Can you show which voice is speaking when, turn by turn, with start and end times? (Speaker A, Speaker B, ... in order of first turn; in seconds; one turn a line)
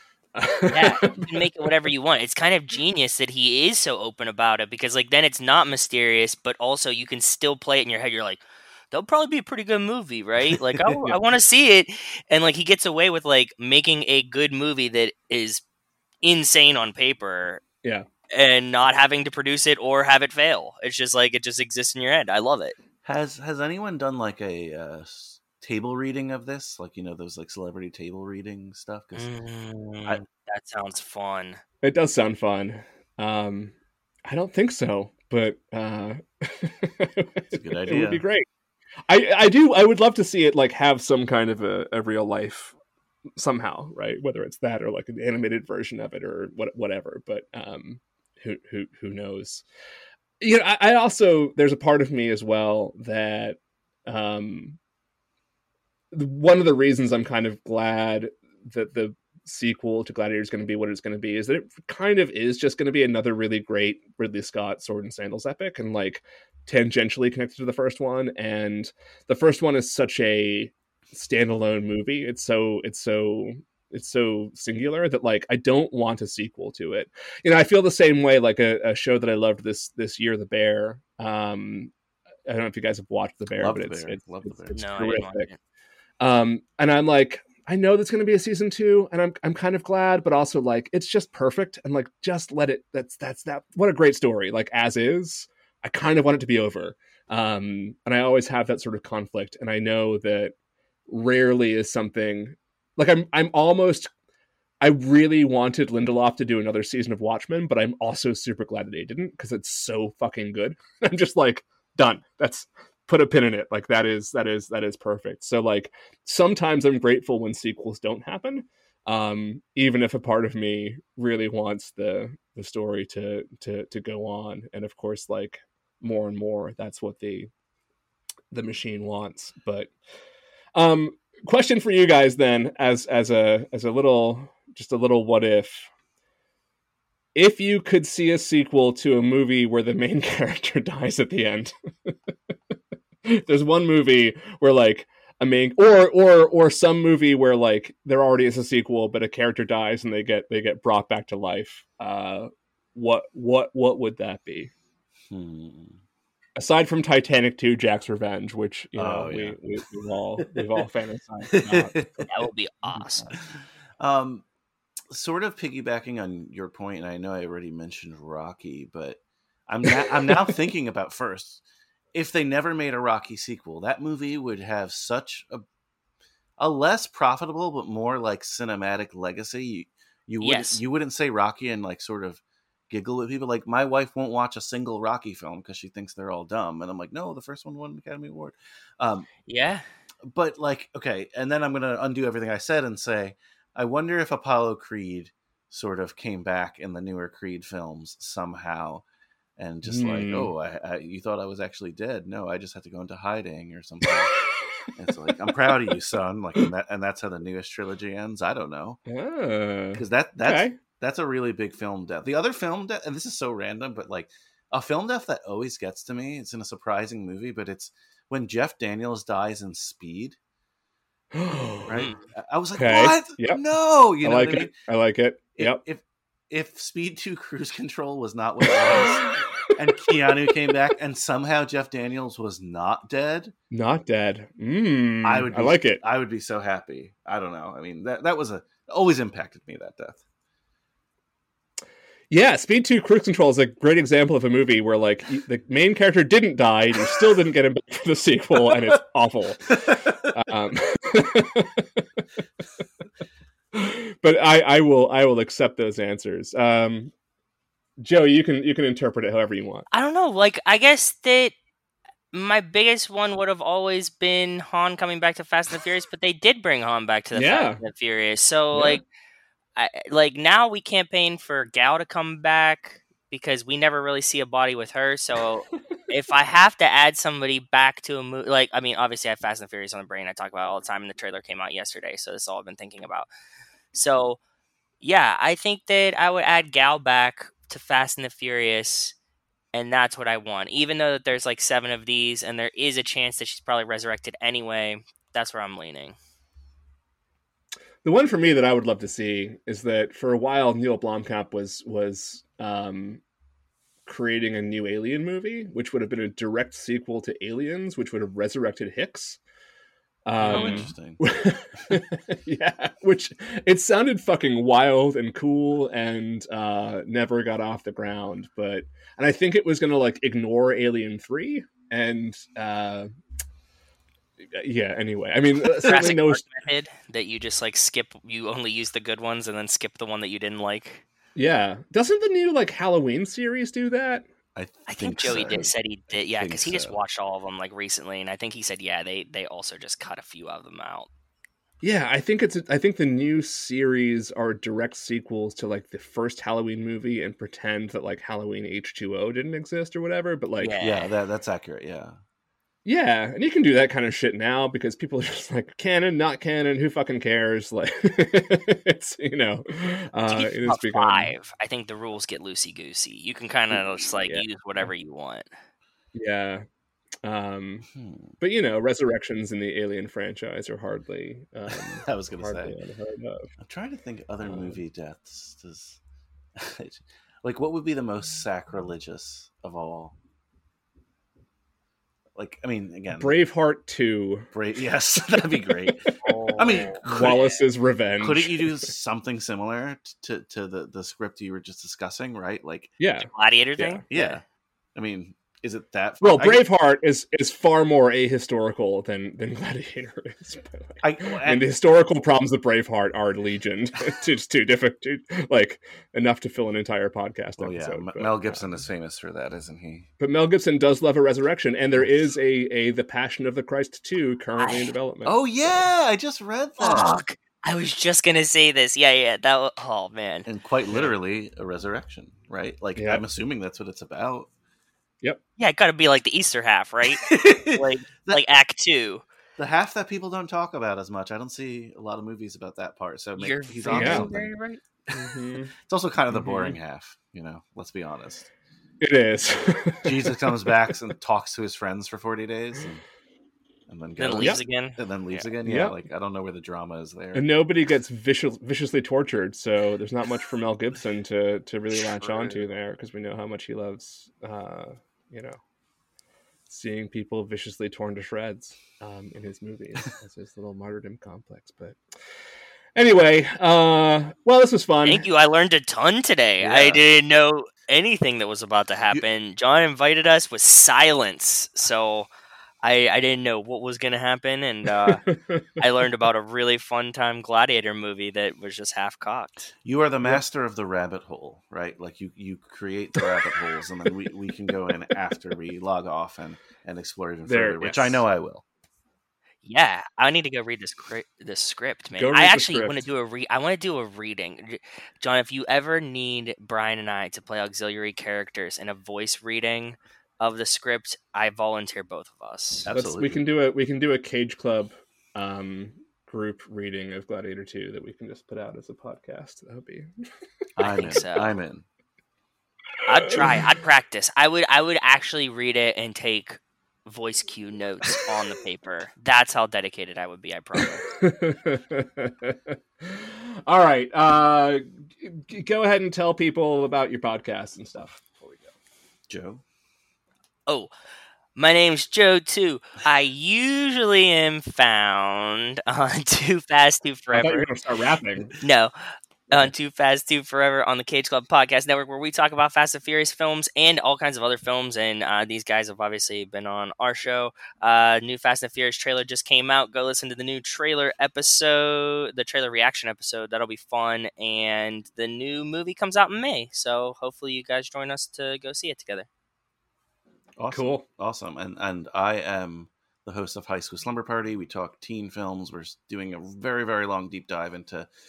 Speaker A: 0.4-1.5
Speaker B: 0.7-15.6
Speaker B: 16.2-17.6
Speaker B: 18.3-22.8
Speaker C: 23.0-29.3
Speaker B: 29.2-31.6
Speaker A: 31.8-33.7
Speaker A: 34.3-38.5
Speaker C: 37.5-38.2
Speaker A: 39.1-42.8
Speaker A: 43.4-49.6
Speaker A: 50.4-54.8
Speaker A: 56.1-81.9
Speaker A: 82.5-85.5
Speaker C: 83.6-84.8
Speaker B: 84.7-85.6
Speaker A: 86.2-100.5
Speaker A: 101.1-104.1
Speaker A: 104.8-127.5
Speaker A: 128.5-129.9
Speaker A: 130.8-135.9
Speaker A: 137.3-142.1
Speaker A: 143.3-154.7
Speaker C: 155.3-156.0
Speaker A: 156.6-162.3
Speaker C: 158.9-159.6
Speaker C: 160.5-160.8
Speaker C: 161.5-162.1
Speaker B: 162.3-163.4
Speaker A: 162.9-163.3
Speaker C: 164.0-164.4
Speaker C: 165.1-171.6
Speaker C: 172.1-175.7
Speaker C: 176.6-189.3
Speaker B: 180.4-180.8
Speaker B: 189.5-189.8
Speaker C: 190.3-199.0
Speaker C: 199.6-204.3
Speaker A: 199.8-200.5
Speaker C: 204.9-209.0
Speaker A: 209.1-210.8
Speaker C: 209.9-220.4
Speaker A: 221.3-222.0
Speaker C: 221.9-224.7
Speaker A: 222.8-223.6
Speaker A: 224.2-225.8
Speaker C: 225.6-233.6
Speaker A: 233.7-236.0
Speaker C: 235.2-240.2
Speaker A: 242.3-252.0
Speaker A: 253.7-257.1
Speaker A: 258.0-259.9
Speaker B: 259.9-261.6
Speaker B: 262.3-269.1
Speaker A: 267.3-267.8
Speaker A: 268.7-269.0
Speaker B: 269.8-283.3
Speaker B: 283.9-284.4
Speaker B: 285.0-289.1
Speaker B: 289.7-296.2
Speaker A: 298.0-303.2
Speaker A: 304.1-309.4
Speaker A: 310.3-323.1
Speaker C: 310.4-311.2
Speaker B: 310.4-310.9
Speaker A: 324.5-326.4
Speaker B: 325.8-331.1
Speaker A: 331.4-334.3
Speaker C: 334.6-335.7
Speaker B: 334.9-341.1
Speaker C: 336.3-337.0
Speaker A: 341.8-350.8
Speaker B: 350.6-351.1
Speaker C: 350.8-352.2
Speaker A: 352.9-361.3
Speaker B: 360.3-365.5
Speaker A: 364.2-364.9
Speaker A: 366.1-366.6
Speaker A: 367.2-367.9
Speaker C: 367.9-368.3
Speaker A: 368.4-373.5
Speaker C: 371.7-372.8
Speaker C: 373.6-376.0
Speaker A: 374.4-374.8
Speaker C: 376.6-380.2
Speaker C: 382.4-383.4
Speaker A: 383.1-384.5
Speaker C: 384.5-387.6
Speaker B: 386.2-387.6
Speaker A: 387.1-388.9
Speaker C: 388.2-393.0
Speaker A: 393.0-394.0
Speaker B: 393.2-394.4
Speaker C: 394.1-394.4
Speaker C: 394.9-396.6
Speaker A: 396.2-408.8
Speaker C: 401.0-401.7
Speaker C: 407.6-410.1
Speaker A: 410.2-415.9
Speaker C: 411.9-412.3
Speaker B: 414.6-414.9
Speaker C: 415.2-417.2
Speaker B: 416.8-420.5
Speaker C: 420.5-424.5
Speaker A: 420.9-421.1
Speaker A: 423.0-423.2
Speaker B: 425.6-429.2
Speaker C: 427.2-428.4
Speaker C: 429.6-434.6
Speaker B: 433.4-434.8
Speaker A: 433.9-434.3
Speaker A: 435.1-435.7
Speaker C: 435.9-438.5
Speaker A: 436.3-436.8
Speaker A: 439.0-440.7
Speaker C: 440.0-443.0
Speaker C: 443.9-447.5
Speaker B: 444.2-445.5
Speaker A: 445.6-446.0
Speaker A: 447.3-455.6
Speaker B: 452.0-452.6
Speaker A: 456.7-462.0
Speaker A: 462.9-465.2
Speaker B: 465.1-472.3
Speaker A: 466.6-467.0
Speaker B: 472.8-479.7
Speaker A: 475.3-475.6
Speaker C: 479.8-488.6
Speaker A: 487.4-488.2
Speaker B: 489.6-502.9
Speaker A: 492.2-493.1
Speaker C: 502.8-503.4
Speaker A: 502.9-510.1
Speaker C: 510.8-511.9
Speaker B: 510.9-511.6
Speaker B: 513.1-521.1
Speaker A: 521.2-528.7
Speaker C: 529.3-529.6
Speaker B: 531.6-537.7
Speaker A: 537.3-538.5
Speaker B: 538.6-538.9
Speaker B: 539.5-559.3
Speaker C: 560.6-568.1
Speaker A: 560.7-561.1